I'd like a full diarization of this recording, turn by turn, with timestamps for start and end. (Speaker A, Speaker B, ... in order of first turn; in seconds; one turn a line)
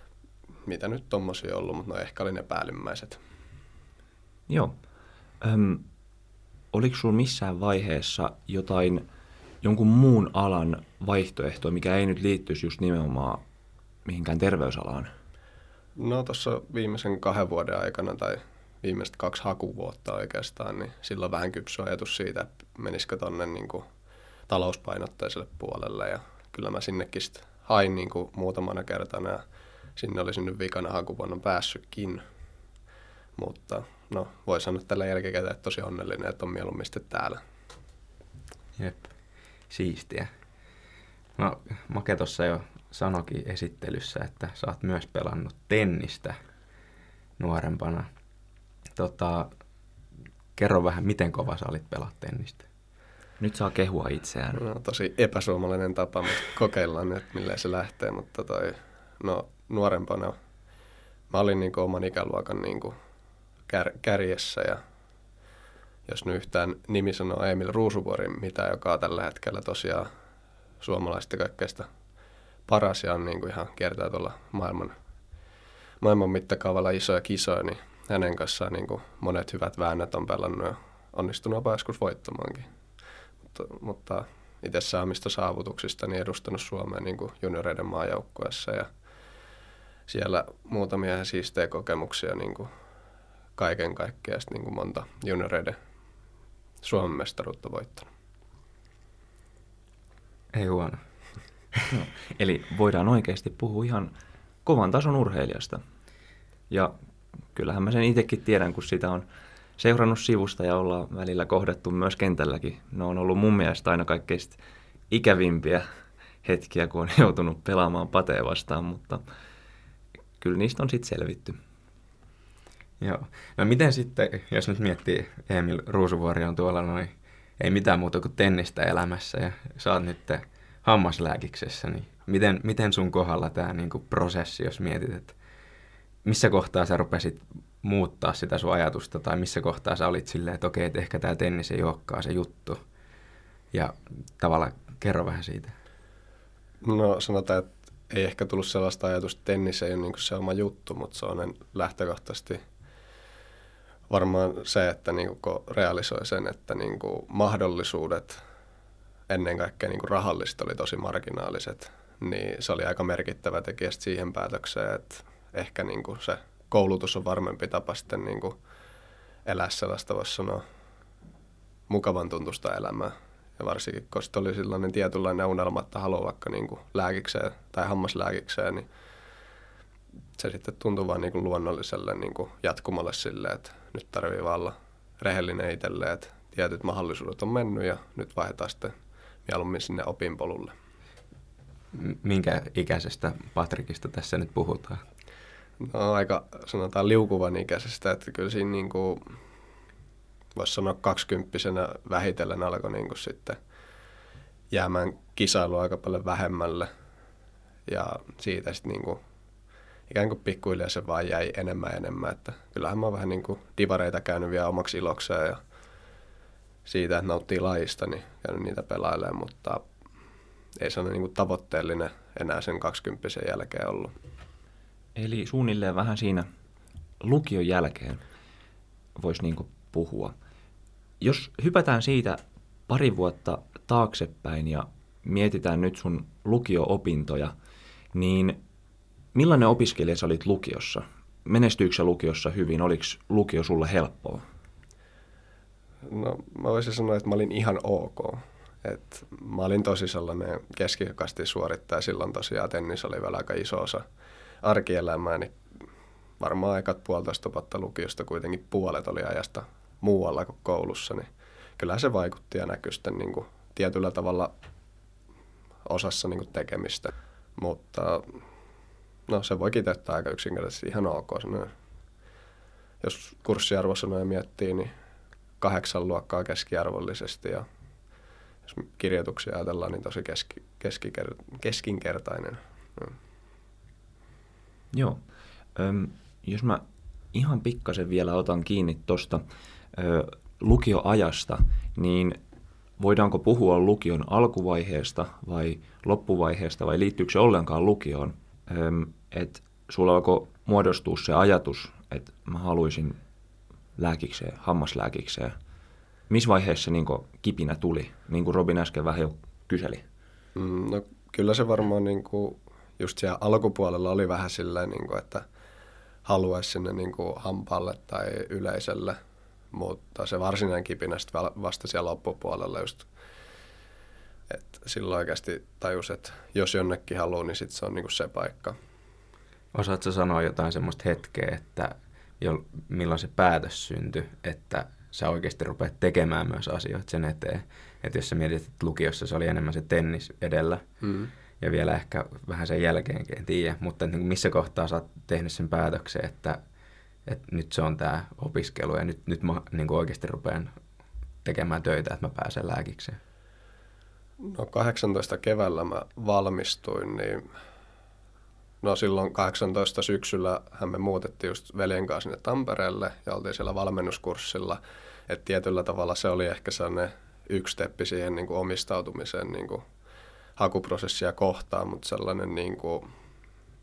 Speaker A: 0.7-3.2
Speaker B: 4.5-4.8
Speaker B: 5.4-5.9
Speaker B: 6.7-9.1
Speaker B: 9.6-13.4
Speaker B: 14.1-15.1
Speaker A: 16.0-23.9
Speaker A: 24.5-29.4
Speaker A: 29.9-32.2
Speaker A: 33.4-37.4
Speaker C: 38.8-39.1
Speaker C: 39.7-40.3
Speaker C: 41.4-46.4
Speaker C: 47.4-48.1
Speaker C: 48.9-49.5
Speaker C: 50.5-52.6
Speaker B: 53.4-54.6
Speaker A: 54.6-60.4
Speaker A: 61.3-63.0
Speaker A: 63.7-64.8
Speaker A: 66.1-70.1
Speaker A: 70.8-71.9
Speaker A: 72.7-74.9
Speaker A: 76.0-82.7
Speaker A: 83.5-88.9
Speaker A: 90.1-92.7
Speaker A: 93.6-95.8
Speaker A: 96.8-98.1
Speaker C: 100.5-101.0
Speaker B: 101.9-104.1
Speaker B: 104.6-105.8
Speaker B: 106.7-107.0
Speaker B: 107.5-109.2
Speaker B: 109.8-115.8
Speaker B: 116.4-119.2
Speaker B: 120.4-121.6
Speaker C: 123.0-135.3
Speaker C: 136.2-142.8
Speaker C: 143.7-145.7
Speaker A: 146.8-152.6
Speaker A: 154.1-158.4
Speaker A: 159.3-168.6
Speaker A: 169.4-170.6
Speaker A: 171.9-178.8
Speaker A: 180.4-188.9
Speaker A: 189.4-190.7
Speaker C: 191.9-195.0
Speaker A: 195.8-199.3
Speaker A: 200.6-203.6
Speaker A: 204.7-206.9
Speaker A: 207.9-209.2
Speaker A: 210.1-215.6
Speaker A: 216.8-219.8
Speaker A: 220.8-224.1
Speaker B: 225.2-226.5
Speaker B: 227.2-228.2
Speaker B: 229.2-230.3
Speaker B: 231.2-237.5
Speaker B: 238.1-238.6
Speaker B: 239.3-244.4
Speaker A: 246.0-254.0
Speaker A: 254.6-255.5
Speaker A: 256.4-264.5
Speaker A: 265.9-268.4
Speaker A: 269.3-271.7
Speaker A: 273.0-274.9
Speaker A: 275.6-277.6
Speaker A: 278.7-283.1
Speaker B: 284.9-285.2
Speaker B: 285.8-292.4
Speaker B: 293.0-303.2
Speaker B: 304.0-305.5
Speaker B: 306.3-310.0
Speaker A: 310.6-315.4
Speaker A: 316.2-319.2
Speaker A: 319.7-323.1
Speaker A: 324.5-328.8
Speaker C: 329.7-340.8
Speaker A: 341.0-341.3
Speaker C: 341.6-346.6
Speaker C: 347.2-350.7
Speaker C: 351.4-353.2
Speaker A: 354.4-357.4
Speaker A: 358.8-369.8
Speaker A: 370.6-373.1